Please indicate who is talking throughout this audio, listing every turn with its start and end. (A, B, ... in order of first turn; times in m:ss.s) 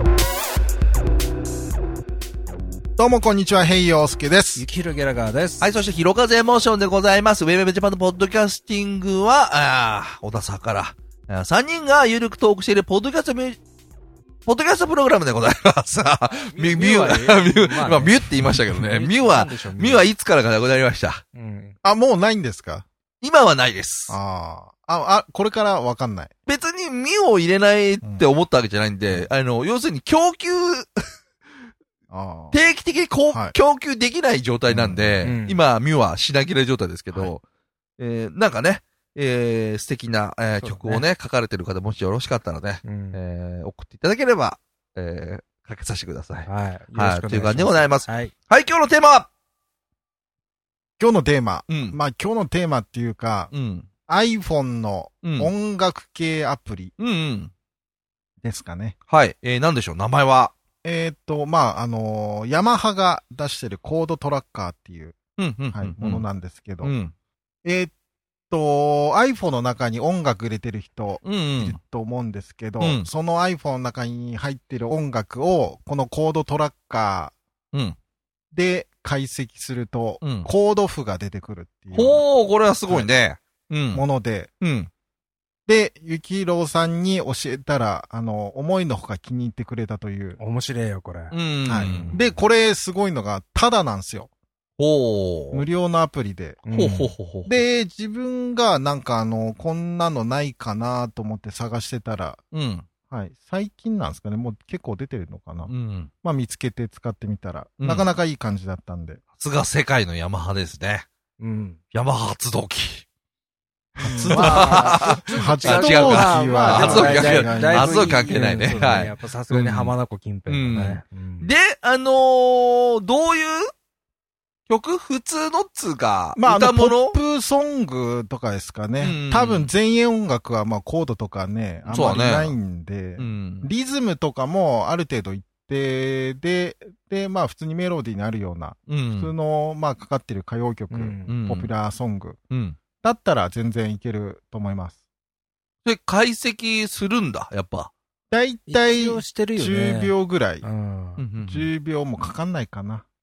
0:03.0-0:04.6 A
0:04.6-0:05.7 B
0:05.6-0:13.6 C
0:14.5-0:21.2 C
0:16.3-0:20.1 B
0:21.3-0:21.8 B
0:21.8-0:22.9 A
0:23.2-0:24.2 C
0:24.1-0:26.3 A
0:26.5-0:30.9 C
0:32.1-0:32.6 A
0:32.5-0:37.4 C
0:33.3-0:33.6 A
0:34.7-0:35.3 A
0:35.2-0:35.6 B
0:38.0-0:49.3 C
0:40.6-0:41.1 B
0:42.8-0:43.2 B
0:46.4-0:48.3 B
0:51.0-0:53.5 A
0:51.7-0:52.0 C
0:53.5-0:53.9 C
0:54.1-0:56.9 A
0:55.2-0:55.5 C
0:57.0-0:57.5 C
0:58.4-0:59.0 A
0:59.1-1:00.5 C
1:00.8-1:05.2 A
1:05.4-1:06.3 C
1:05.7-1:06.9 A
1:06.8-1:07.1 C
1:07.6-1:07.9 A
1:08.5-1:17.4 A
1:11.2-1:11.8 C
1:12.8-1:13.1 C
1:18.5-1:22.2 A
1:20.2-1:20.5 C
1:21.9-1:24.0 C
1:23.9-1:24.5 A
1:24.6-1:24.9 C
1:25.7-1:30.4 A
1:30.4-1:32.4 B
1:31.3-1:32.2 C
1:31.6-1:34.3 A
1:34.8-1:35.6 C
1:35.5-1:36.7 A
1:36.7-1:37.2 B
1:36.7-1:37.7 C
1:37.5-1:42.4 A
1:42.5-1:42.9 C
1:43.1-1:49.2 A
1:45.7-1:46.1 C
1:47.8-1:48.1 C
1:49.4-1:51.1 C
1:51.4-1:51.8 B
1:51.9-1:53.0 C
1:54.0-2:00.0 C
1:54.0-1:59.1 A
1:54.2-2:01.5 B
2:00.5-2:03.7 C
2:04.7-2:07.2 C
2:06.4-2:22.4 A
2:09.0-2:09.7 C
2:11.9-2:12.6 C
2:13.2-2:13.7 C
2:18.9-2:19.3 C
2:20.9-2:21.4 B
2:21.3-2:21.7 C
2:22.5-2:22.8 C
2:23.0-2:25.0 A
2:25.8-2:27.9 C
2:28.3-2:30.7 A
2:28.7-2:31.2 B
2:31.2-2:31.7 C
2:31.4-2:33.0 A